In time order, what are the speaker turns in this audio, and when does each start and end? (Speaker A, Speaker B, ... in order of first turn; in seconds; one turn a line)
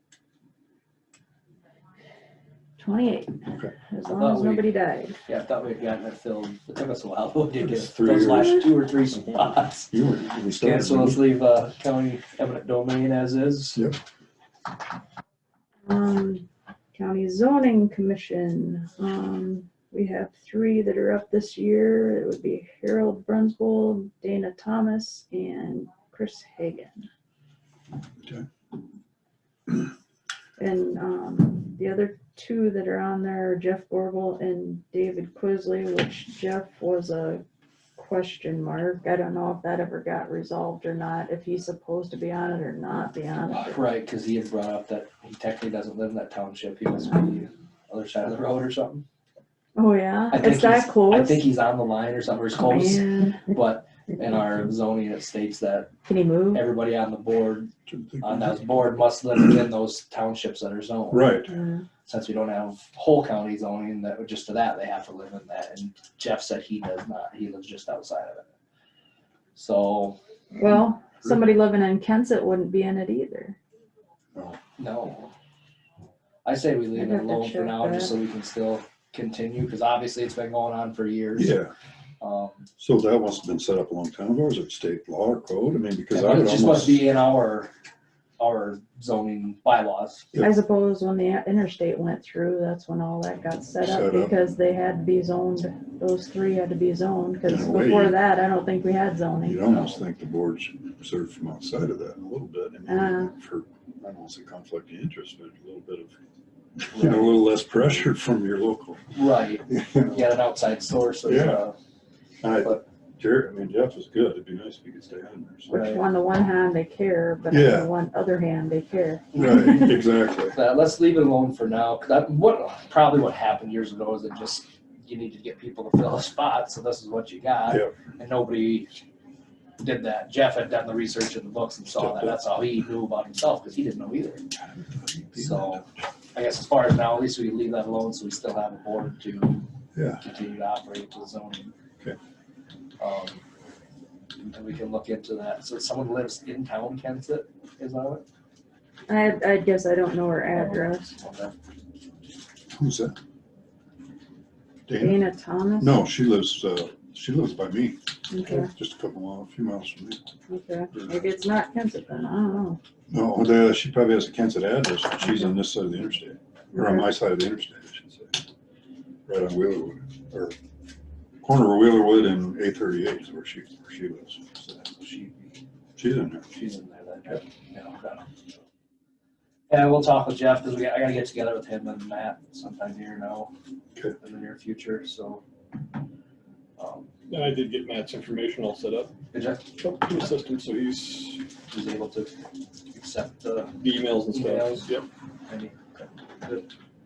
Speaker A: 2.8-5.2
Speaker B: 4.1-4.7
Speaker B: 5.3-9.9
Speaker C: 7.6-8.7
Speaker A: 8.1-8.4
Speaker C: 9.9-11.2
Speaker B: 10.6-13.8
Speaker A: 15.8-27.1
Speaker A: 30.6-37.4
Speaker A: 38.0-43.8
Speaker B: 43.6-49.0
Speaker A: 49.8-51.5
Speaker B: 50.3-55.9
Speaker A: 52.6-53.5
Speaker A: 56.0-56.7
Speaker B: 56.5-61.4
Speaker C: 57.9-58.8
Speaker C: 61.1-61.5
Speaker A: 61.5-61.9
Speaker B: 62.1-68.5
Speaker B: 69.5-70.2
Speaker A: 70.6-73.6
Speaker B: 74.8-75.3
Speaker B: 76.5-81.6
Speaker A: 76.9-78.1
Speaker C: 81.4-81.7
Speaker B: 82.2-82.7
Speaker C: 82.8-87.0
Speaker B: 86.1-87.7
Speaker B: 88.4-90.3
Speaker A: 90.4-99.8
Speaker C: 93.8-94.3
Speaker C: 97.5-98.2
Speaker C: 99.4-106.2
Speaker A: 102.9-103.3
Speaker C: 106.8-109.0
Speaker B: 106.9-107.3
Speaker B: 109.1-111.8
Speaker C: 109.7-110.2
Speaker C: 111.2-111.6
Speaker C: 112.4-115.7
Speaker A: 115.7-119.9
Speaker B: 115.7-116.0
Speaker C: 117.5-117.9
Speaker B: 119.3-119.9
Speaker C: 119.4-120.6
Speaker B: 120.5-128.9
Speaker C: 127.7-127.9
Speaker B: 129.8-134.4
Speaker C: 132.0-132.3
Speaker C: 134.6-135.8
Speaker B: 135.3-135.8
Speaker B: 136.3-139.7
Speaker C: 139.9-140.2
Speaker B: 140.2-141.7
Speaker B: 143.0-143.4
Speaker B: 144.4-148.2
Speaker A: 149.1-151.1
Speaker B: 150.6-151.6
Speaker C: 152.7-153.2
Speaker C: 154.9-155.2
Speaker A: 155.0-156.0
Speaker C: 155.8-160.2
Speaker A: 158.3-158.7
Speaker A: 160.5-162.8
Speaker C: 163.1-168.4
Speaker A: 166.7-167.1
Speaker C: 169.3-170.6
Speaker C: 171.4-174.5
Speaker B: 174.6-175.6
Speaker C: 176.0-176.5
Speaker B: 176.5-178.6
Speaker B: 179.7-183.5
Speaker B: 184.2-185.4
Speaker B: 186.8-187.1
Speaker D: 187.3-189.1
Speaker B: 189.3-189.9
Speaker D: 189.8-191.4
Speaker B: 191.7-192.3
Speaker B: 192.9-196.7
Speaker D: 193.8-195.1